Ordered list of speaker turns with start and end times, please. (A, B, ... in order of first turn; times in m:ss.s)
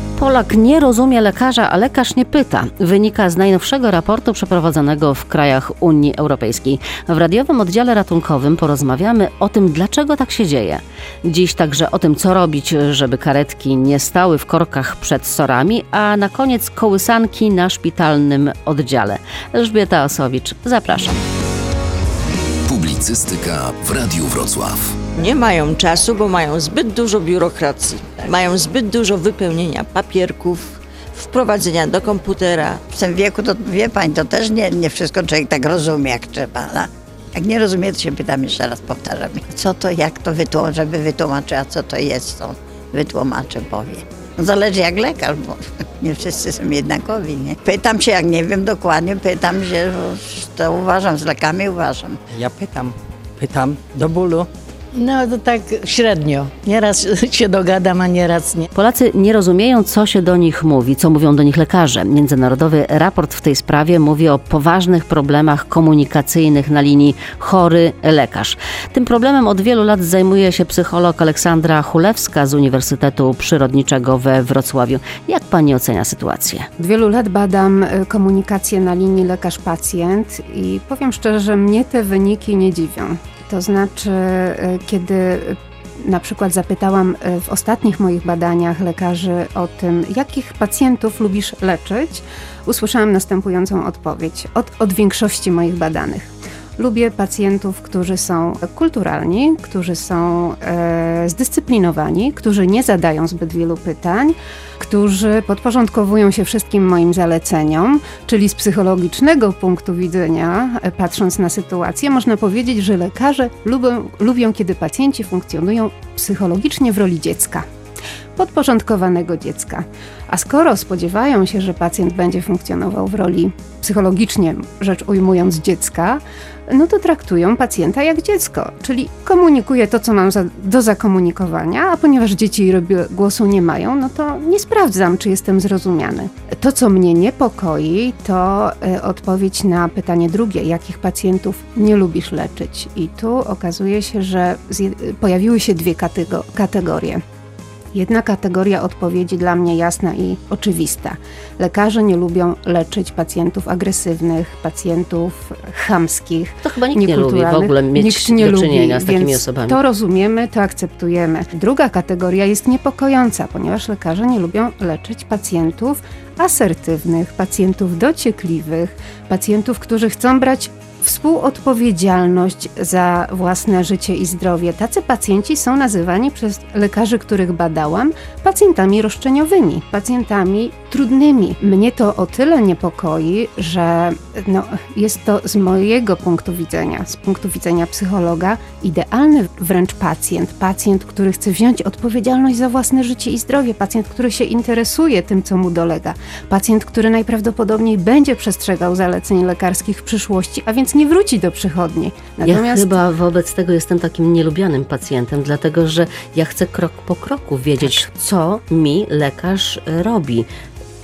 0:00.2-0:21.2 A
0:22.7-0:25.0 B
0:25.1-0:32.9 C
0:32.8-0:52.2 D
0:52.3-0:54.2 E
0:53.8-0:58.6 F
0:58.7-1:16.7 A
1:16.8-1:57.7 G
1:58.4-2:27.2 G
2:27.9-3:23.0 G
2:36.6-2:39.8 A
3:22.4-3:30.5 A